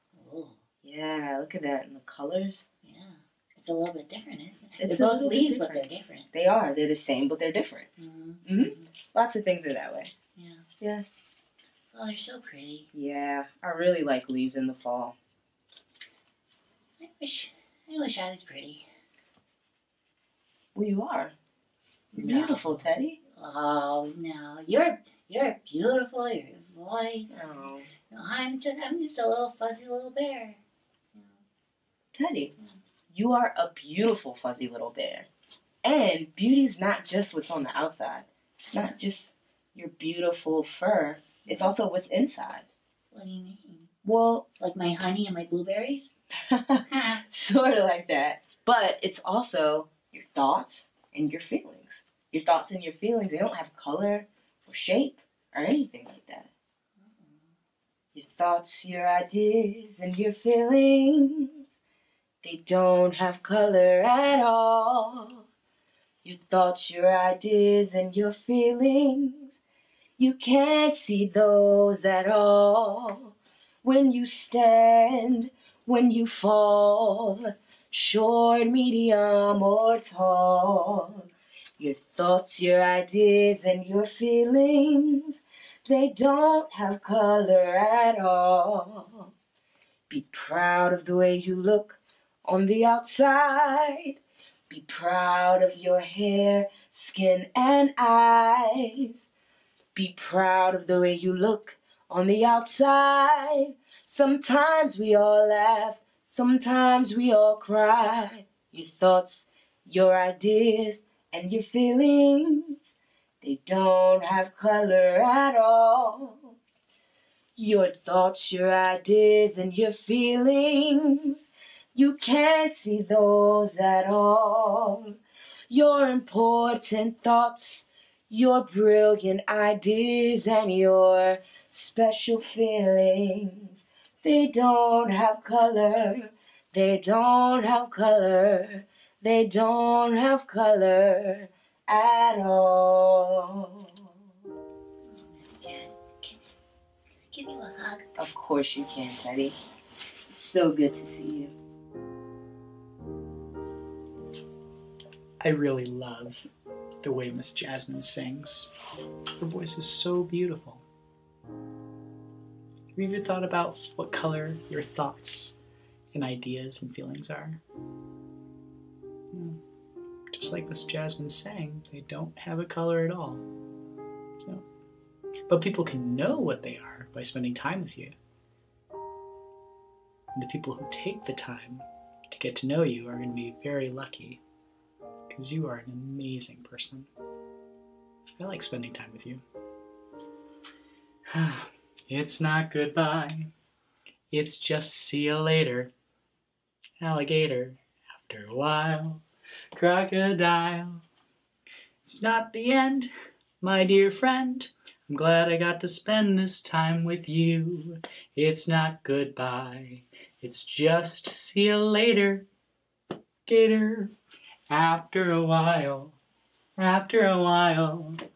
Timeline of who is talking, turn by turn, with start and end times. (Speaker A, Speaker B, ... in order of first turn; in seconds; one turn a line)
Speaker A: 0.1-0.6
Speaker B: 0.8-2.6
Speaker A: 2.8-6.3
Speaker B: 4.8-7.9
Speaker A: 8.0-8.9
Speaker B: 8.4-10.1
Speaker A: 10.4-10.7
Speaker A: 11.9-12.9
Speaker B: 12.9-15.2
Speaker A: 17.0-18.9
Speaker B: 20.7-21.3
Speaker A: 22.1-22.7
Speaker B: 22.2-23.2
Speaker C: 22.7-22.9
Speaker A: 23.3-27.4
Speaker B: 27.3-27.9
Speaker A: 28.1-30.6
Speaker B: 32.1-32.5
Speaker B: 33.1-35.3
Speaker B: 35.8-42.6
Speaker A: 43.1-46.1
Speaker B: 44.0-44.5
Speaker B: 46.5-56.5
Speaker A: 46.9-47.2
Speaker B: 58.1-61.8
Speaker B: 62.4-65.5
Speaker B: 66.2-69.6
Speaker B: 70.2-81.3
Speaker B: 81.8-89.3
Speaker B: 90.1-94.2
Speaker B: 94.7-99.3
Speaker B: 100.0-116.5
Speaker B: 117.6-125.2
Speaker B: 125.7-144.0
Speaker A: 145.1-146.4
Speaker A: 147.3-148.2
Speaker B: 148.2-149.6
Speaker B: 150.3-151.5
Speaker C: 155.4-156.4
Speaker C: 157.0-158.7
Speaker C: 159.4-160.8
Speaker C: 162.9-165.6
Speaker C: 166.1-167.6
Speaker C: 169.3-169.6
Speaker C: 170.3-173.4
Speaker C: 175.5-178.1
Speaker C: 180.4-184.4
Speaker C: 185.3-187.1
Speaker C: 188.4-189.4
Speaker C: 191.3-193.5
Speaker C: 194.3-195.9
Speaker C: 197.0-199.2
Speaker C: 199.7-201.0
Speaker C: 202.1-212.4
Speaker C: 213.4-214.1
Speaker C: 214.7-216.2
Speaker C: 216.8-218.2